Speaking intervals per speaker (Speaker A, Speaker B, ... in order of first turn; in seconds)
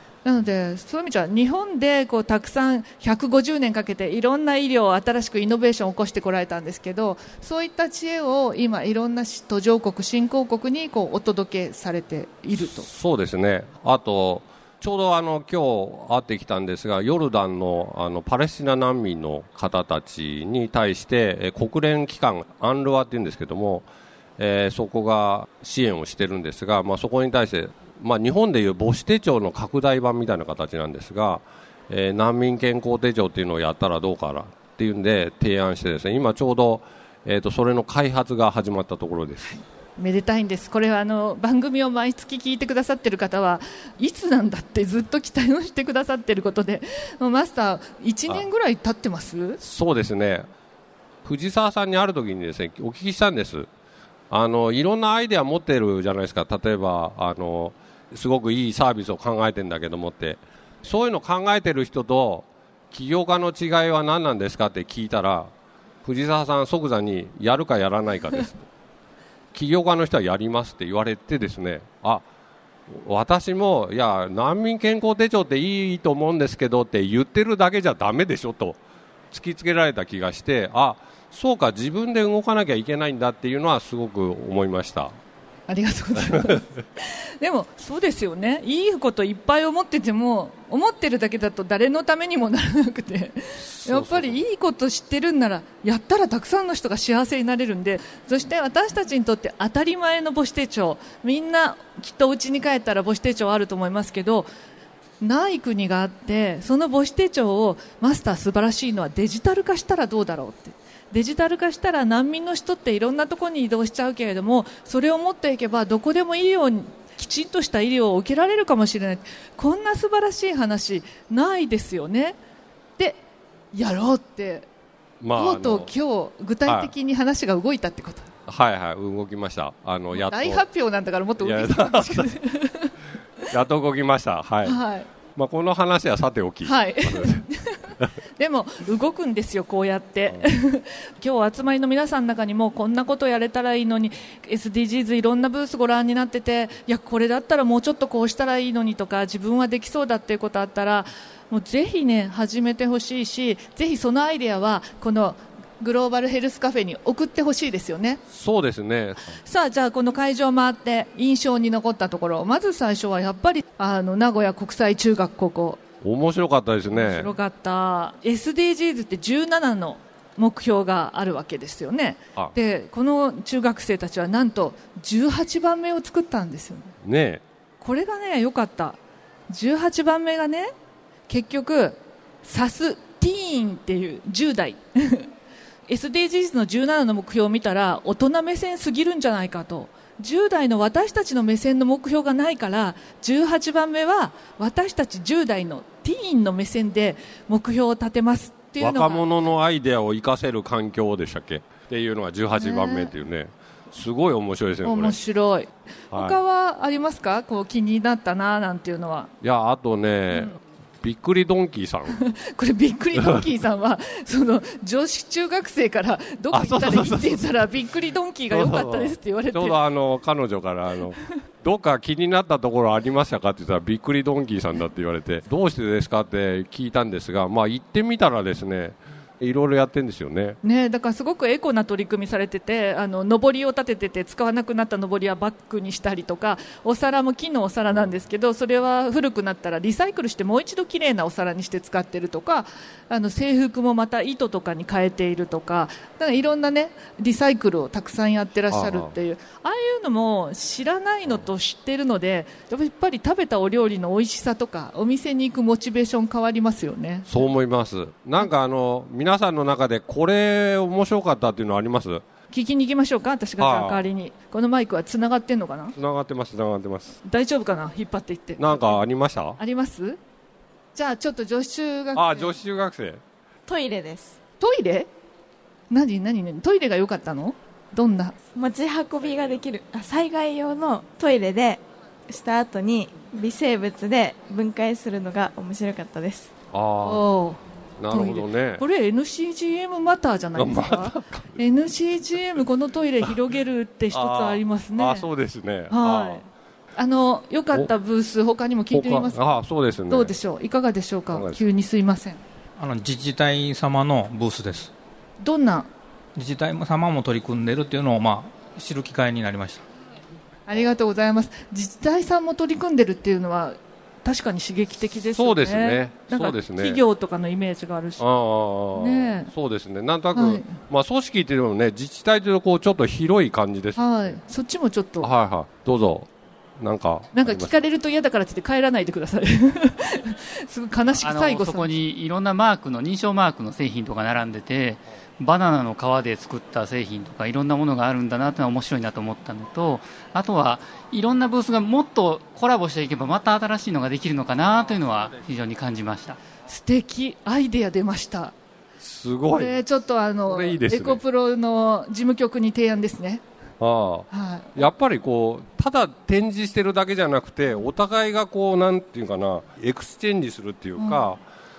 Speaker A: 0.2-12.9, 40.0-49.6, 85.7-104.5, 105.2-122.4, 123.7-124.7, 125.3-128.3, 130.1-132.9, 134.6-135.1, 136.6-158.2, 159.4-165.8, 166.9-176.9, 177.8-179.0, 179.5-180.7, 181.3-185.3, 185.9-199.3, 202.6-203.1, 204.8-209.3, 210.3-210.6, 212.1-219.8, 230.6-257.4, 262.5-265.9, 267.2-269.0, 269.6-270.2, 270.9-272.5, 274.6-275.1, 275.9-278.4, 287.0-295.3, 295.9-299.4, 300.1-302.4, 305.4-305.9, 310.7-318.2, 318.9-319.5, 320.3-320.7, 323.9-325.3, 327.3-332.0, 346.7-348.5, 349.5-353.4, 354.3-354.9, 361.0-361.3
Speaker B: 12.5-23.9, 24.4-39.6, 49.6-50.5, 51.2-53.7, 54.3-65.5, 66.0-68.6, 69.5-72.2, 72.9-78.8, 79.3-85.1, 93.6-94.4, 125.2-125.9, 126.7-126.9, 128.5-130.7, 131.4-132.3, 133.5-134.8, 135.4-137.4, 158.3-159.3, 166.0-167.3, 177.0-177.4, 198.8-205.2, 206.1-206.4, 209.4-212.2, 213.1-213.4, 216.5-217.6, 218.5-230.6, 248.7-249.1, 257.3-262.2, 263.6-264.0, 265.9-267.2, 268.6-269.6, 272.1-273.2, 286.7-287.2, 288.0-288.8, 290.5-291.6, 294.1-296.4, 298.9-300.4, 301.3-301.6, 315.3-317.0, 318.2-324.4, 325.2-327.8, 349.0-349.8, 350.4-351.2, 353.8-361.4
Speaker C: 273.7-274.4, 278.5-286.5
Speaker D: 302.8-304.9, 306.4-309.8
Speaker E: 331.2-346.4